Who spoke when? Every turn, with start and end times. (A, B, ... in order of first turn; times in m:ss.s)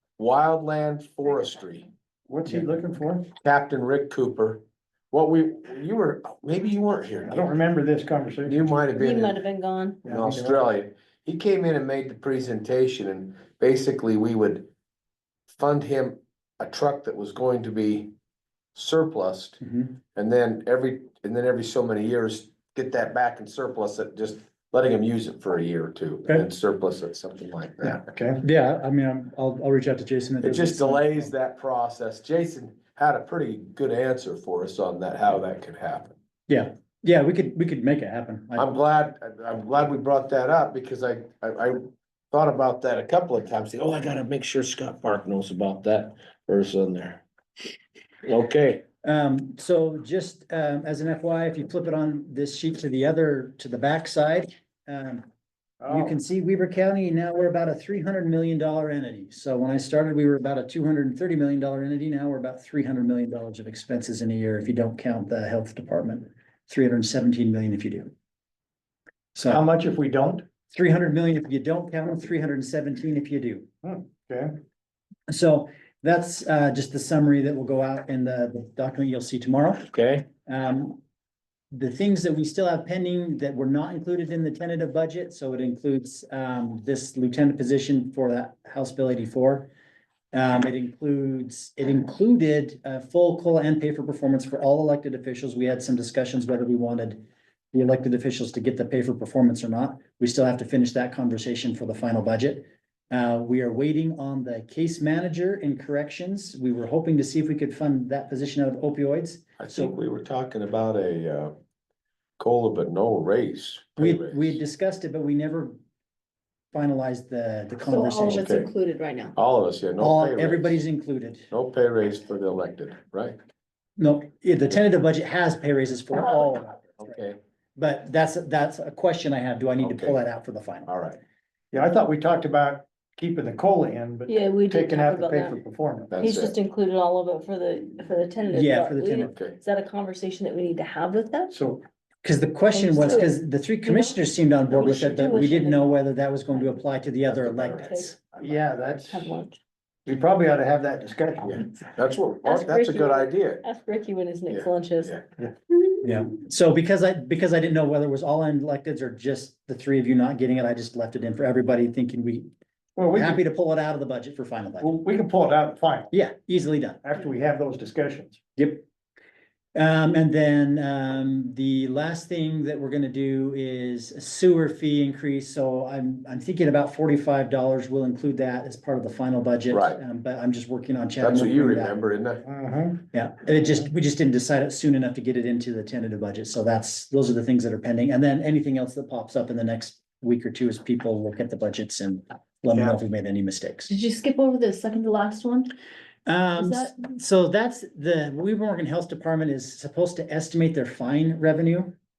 0:00.2-0:01.9 A
0:02.3-0:03.3 B
0:03.4-0:07.6 A
0:07.2-0:08.7 B
0:08.4-0:09.4 A
0:09.0-0:10.0 C
0:10.0-0:10.6 B
0:10.0-0:14.7 A
0:15.5-0:18.1 A
0:18.7-0:19.6 A
0:19.6-0:20.0 D
0:20.1-0:28.0 A
0:27.8-0:28.4 B
0:28.4-0:31.3 D
0:30.4-0:36.1 A
0:36.5-0:38.7 D
0:38.6-0:47.2 A
0:48.2-0:48.8 A
0:49.0-0:55.2 D
0:55.8-0:56.1 B
0:55.9-1:08.1 D
1:09.3-1:09.6 D
1:09.4-1:10.4 B
1:10.7-1:13.7 D
1:13.8-1:14.6 B
1:15.3-1:19.9 D
1:19.9-1:20.3 A
1:20.4-1:21.0 D
1:21.7-1:29.7 D
1:30.3-1:49.9 D
1:49.6-1:51.6 A
1:52.4-1:54.6 A
1:54.0-1:55.8 D
1:56.7-1:58.7 D
1:57.8-1:59.3 C
1:58.3-1:58.7 A
1:59.4-2:00.8 A
2:00.0-2:01.5 D
2:01.5-2:03.4 A
2:04.0-2:07.1 D
2:07.0-2:07.4 A
2:07.8-2:10.9 D
2:09.8-2:10.2 A
2:10.8-2:11.2 A
2:11.7-2:16.1 B
2:14.3-2:15.6 C
2:16.1-2:16.6 A
2:16.2-2:21.5 C
2:18.5-2:19.3 D
2:19.2-2:19.6 A
2:21.5-2:21.8 B
2:22.2-2:28.2 D
2:22.7-2:24.2 C
2:24.7-2:25.5 A
2:25.0-2:26.8 C
2:27.2-2:28.7 A
2:27.8-2:28.1 C
2:28.3-2:29.4 B
2:29.1-2:29.6 C
2:30.0-2:31.7 B
2:31.5-2:33.6 A
2:32.4-2:35.2 C
2:34.5-2:35.2 A
2:36.0-2:42.5 D
2:43.0-2:43.4 B
2:43.1-2:44.9 D
2:44.8-2:46.1 B
2:46.1-2:47.0 D
2:47.0-2:48.4 B
2:48.6-2:48.8 D
2:49.7-3:02.0 D
2:59.7-3:00.0 A
3:01.2-3:02.4 A
3:02.4-3:03.1 B
3:03.1-3:13.9 D
3:12.7-3:13.0 A
3:13.9-3:15.7 C
3:16.2-3:22.0 D
3:16.6-3:16.9 C